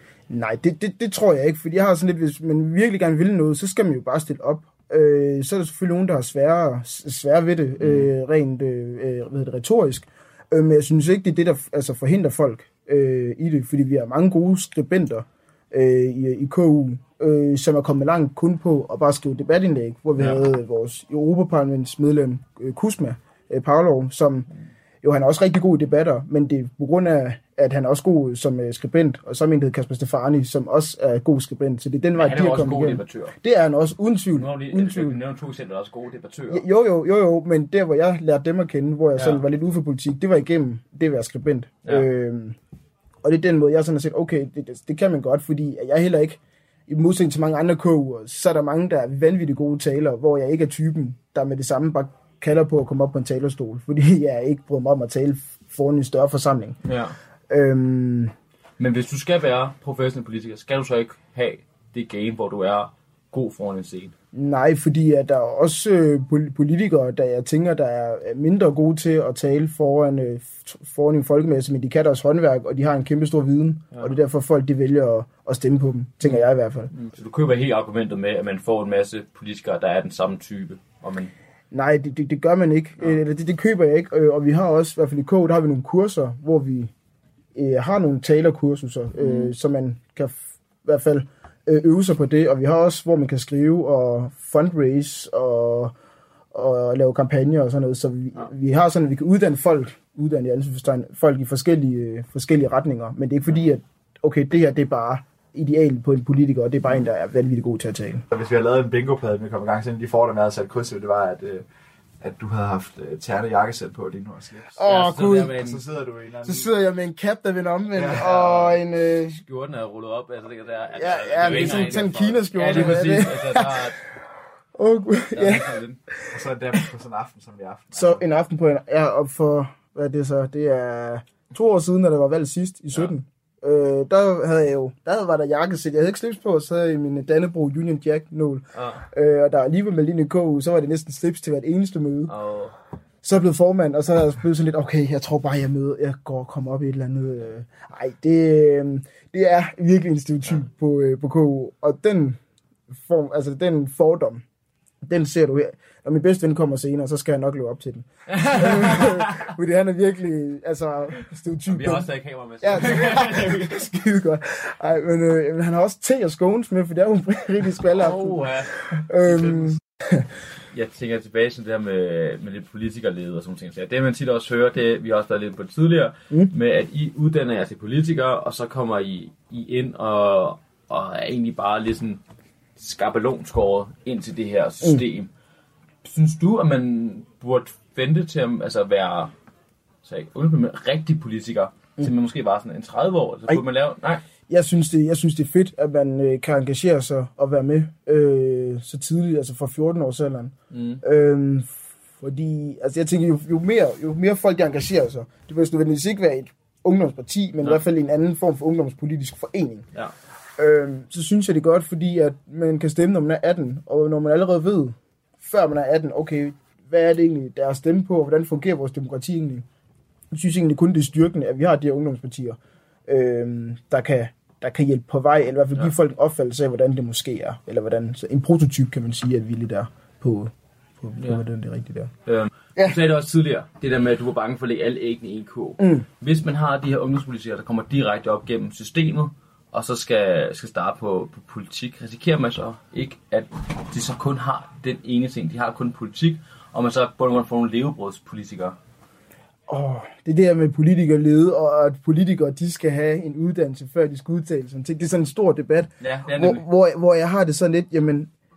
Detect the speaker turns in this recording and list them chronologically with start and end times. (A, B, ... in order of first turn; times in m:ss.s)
0:00.3-0:24.5 A
0:07.8-0:08.1 B
0:25.0-0:35.2 A
0:32.2-0:33.4 B
0:34.3-0:36.6 B
0:36.5-0:42.6 A
0:39.2-0:39.4 B
0:43.2-0:56.8 A
0:56.8-0:57.2 B
0:57.5-0:58.4 A
0:58.8-1:04.2 B
1:04.3-1:16.9 A
1:16.2-1:21.3 B
1:21.7-1:26.9 A
1:27.6-1:35.9 A
1:29.2-1:29.5 B
1:36.5-1:48.2 A
1:48.3-1:51.6 C
1:52.2-1:54.8 C
1:54.8-1:55.6 A
1:54.8-1:55.8 B
1:55.5-1:56.7 C
1:56.4-1:59.4 A
1:58.0-1:58.3 C
1:58.1-2:04.0 B
2:01.0-2:04.0 A
2:01.5-2:01.8 C
2:04.8-2:06.8 A
2:05.3-2:06.0 B
2:06.3-2:08.2 C
2:07.9-2:22.3 A
2:18.7-2:19.1 B
2:22.3-2:22.8 B
2:23.2-2:32.4 A
2:32.9-2:34.4 A
2:35.0-2:42.1 A
2:38.3-2:39.4 B
2:41.7-2:43.7 B
2:42.6-2:50.3 A
2:47.8-2:49.8 B
2:50.7-3:02.2 B
3:02.8-3:05.3 B
3:06.0-3:09.3 B
3:10.0-3:14.2 B
3:14.5-3:29.9 A
3:20.7-3:21.0 B
3:30.6-3:39.7 A
3:40.3-3:52.1 A
3:52.3-4:08.8 B
3:55.8-3:56.0 A
4:09.7-4:18.3 A
4:16.0-4:16.6 B